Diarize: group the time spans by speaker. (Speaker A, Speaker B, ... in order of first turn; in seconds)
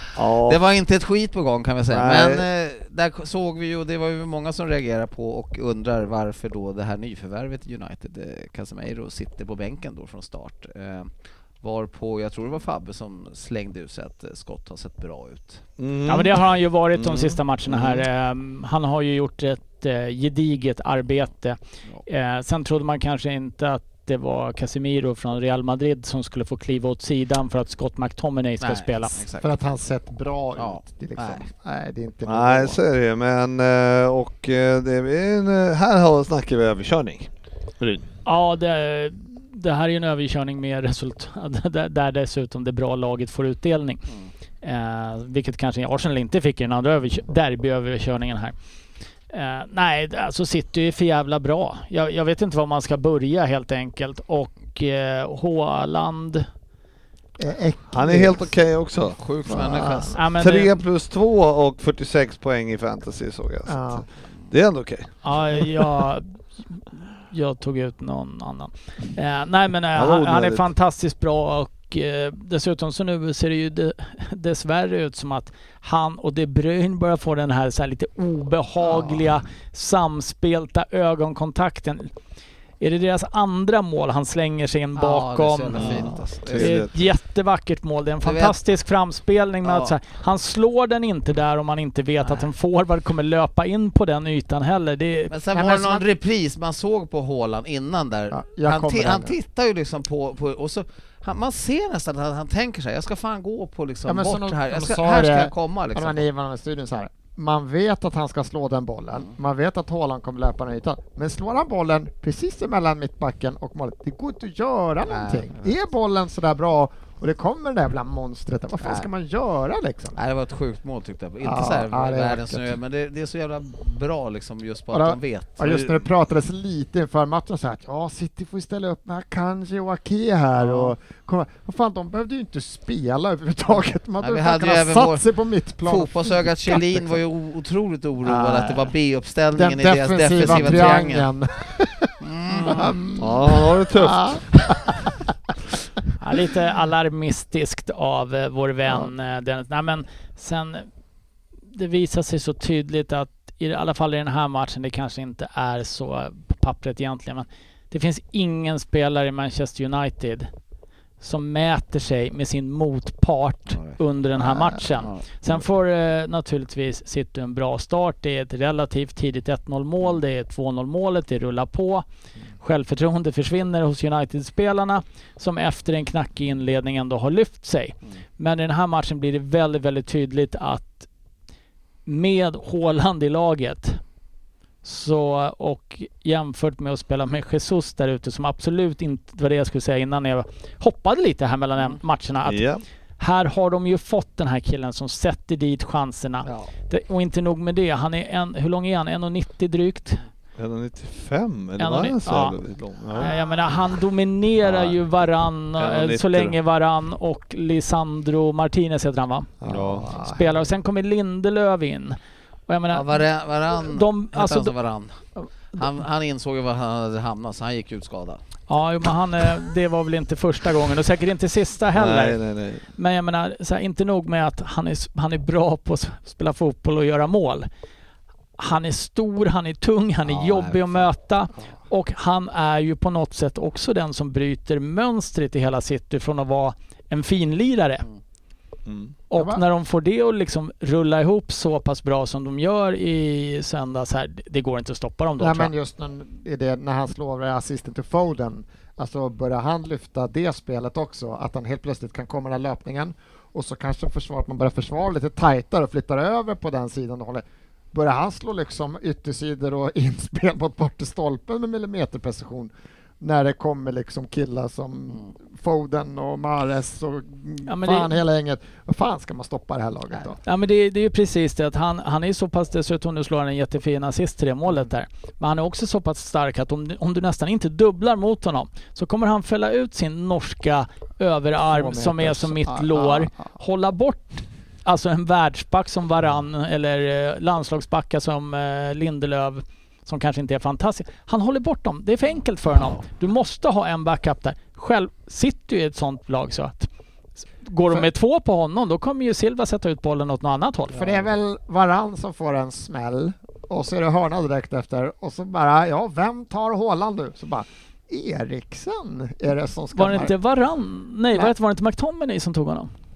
Speaker A: 0.1-0.6, 1.9-2.4, 15.8-16.4, 16.9-18.1, 32.2-38.1, 57.9-65.7, 69.9-70.7, 85.7-87.1, 125.6-126.0, 143.2-144.4, 192.4-192.8, 200.6-203.3, 204.6-206.6, 209.6-210.1, 221.9-222.8, 238.8-239.2
Speaker B: 0.5-15.7, 28.6-29.6, 30.6-31.4, 59.1-60.2, 85.0-86.8, 88.2-88.6, 89.6-89.9, 95.3-106.2, 115.0-115.6, 118.8-119.1, 120.1-125.6, 130.6-130.9, 134.2-135.2, 135.8-141.3, 142.2-142.9, 163.7-164.0, 196.4-196.7, 212.9-218.4, 230.2-231.1, 292.7-293.0, 300.9-301.3
Speaker C: 16.1-29.2, 38.2-44.1, 44.6-48.5, 49.3-56.5, 60.1-60.8, 65.2-82.1, 82.8-95.3, 146.2-150.8, 151.7-160.5, 161.2-172.0, 172.6-181.1, 182.1-184.0, 184.8-192.7, 193.2-200.2, 201.8-202.6, 203.1-209.5, 210.1-212.2, 212.7-213.1, 213.8-214.8, 215.3-215.8, 218.7-222.4, 222.9-227.7, 228.6-238.1, 239.3-245.7, 267.7-268.2, 270.4-296.9, 297.6-301.0, 309.9-312.9
Speaker D: 29.4-32.8, 57.4-58.6, 59.5-60.2, 63.7-64.1, 95.5-96.0, 98.3-99.3, 104.1-120.2, 121.4-122.8, 124.9-137.1, 138.2-138.9, 139.6-144.9, 164.4-164.8, 209.6-210.6, 239.3-239.6, 245.4-270.4, 281.6-283.5, 301.0-310.3